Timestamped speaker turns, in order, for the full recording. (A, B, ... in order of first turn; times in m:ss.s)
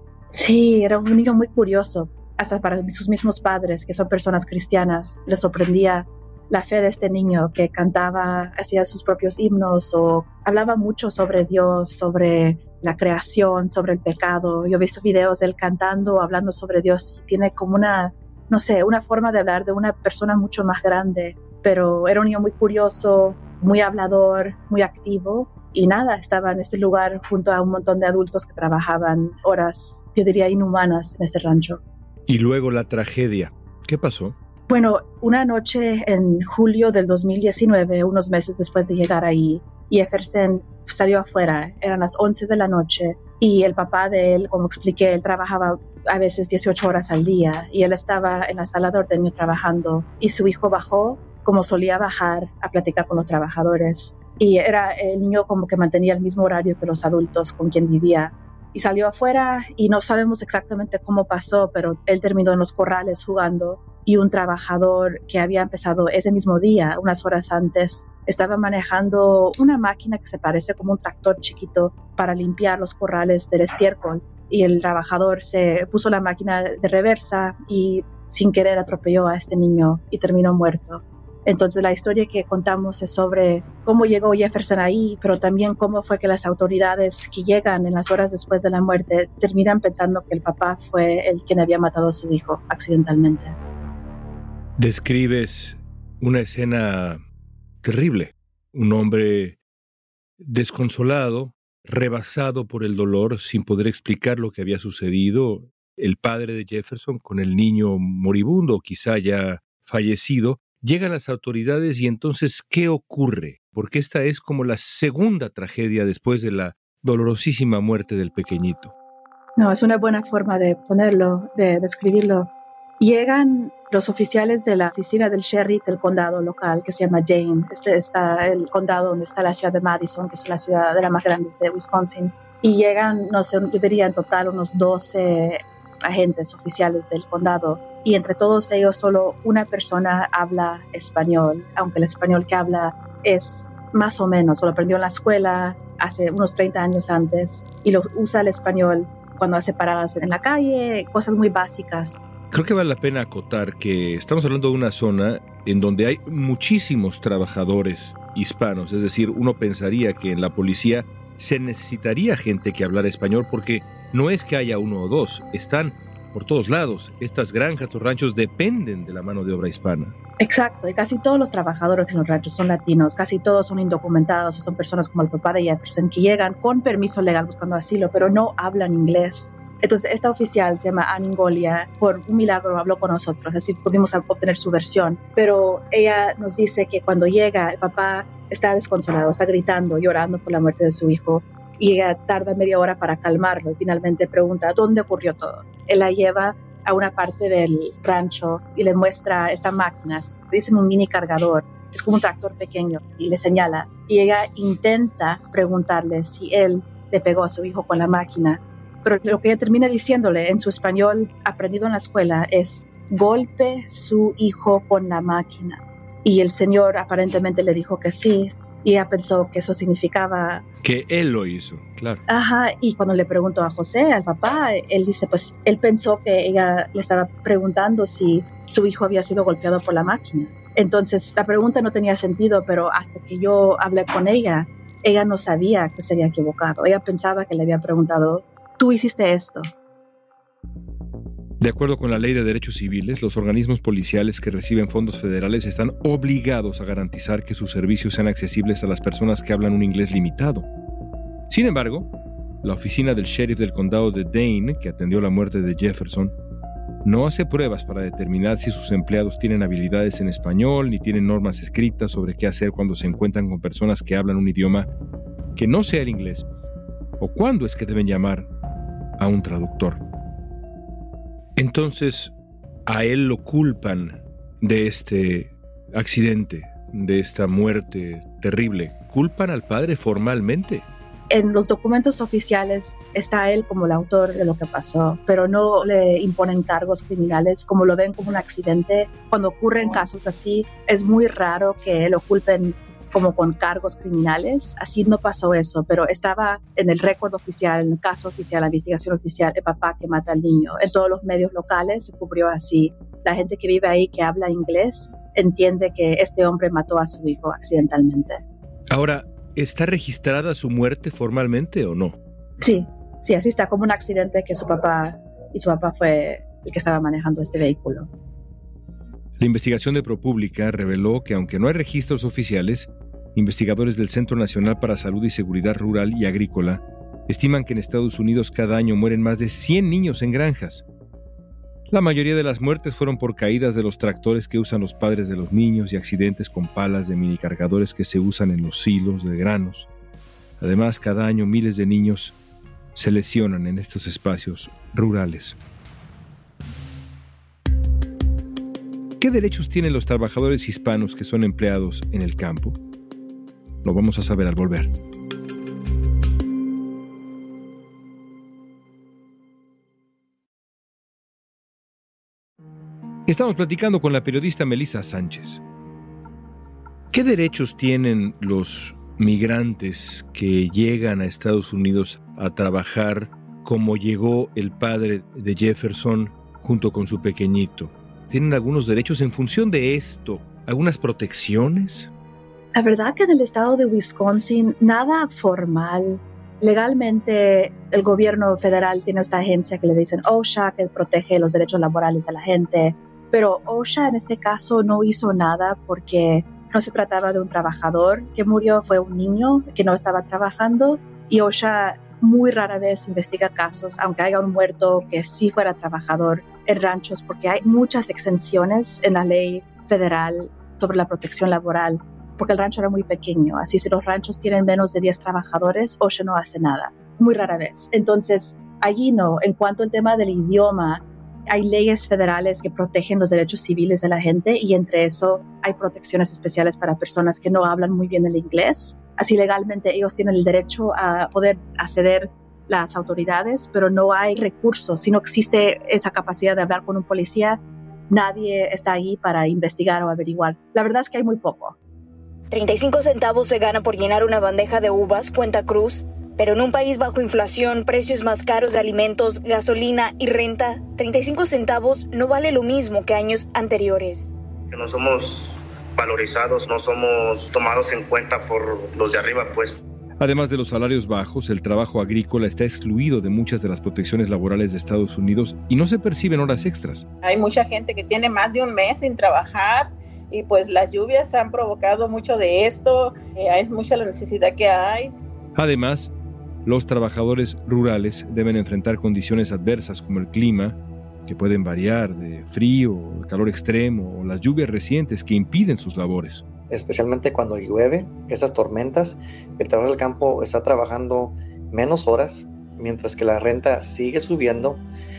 0:00.3-0:31.8 A
0:32.3-0:34.4 B
0:34.7-1:33.6 A
1:34.8-1:37.2 B
1:37.8-1:39.6 B
1:40.4-1:58.9 B
1:59.6-2:32.2 A
2:32.5-2:50.1 B
2:50.4-3:40.6 A
3:40.8-3:42.2 B
3:42.3-3:59.7 A
4:01.6-4:10.6 B
4:11.5-4:12.1 B
4:12.6-4:16.3 B
4:17.0-4:24.9 B
4:25.5-4:26.4 B
4:27.2-4:28.5 B
4:29.2-4:30.0 B
4:31.6-4:32.3 B
4:32.8-4:40.8 B
4:41.3-5:08.4 A
5:08.9-5:12.2 B
5:12.6-5:18.1 A
5:19.4-5:30.8 B
5:31.9-5:39.9 B
5:40.6-5:42.4 B
5:42.9-5:45.6 B
5:49.2-5:52.8 B
5:53.8-5:54.9 B
6:03.3-6:05.6 B
6:07.1-6:22.1 B
6:22.7-7:21.8 A
7:22.5-7:34.3 C
7:34.7-7:39.8 D
7:40.2-7:47.0 B
7:47.2-7:55.1 E
7:55.6-7:56.1 B
7:56.6-8:06.4 B
8:06.7-8:14.8 F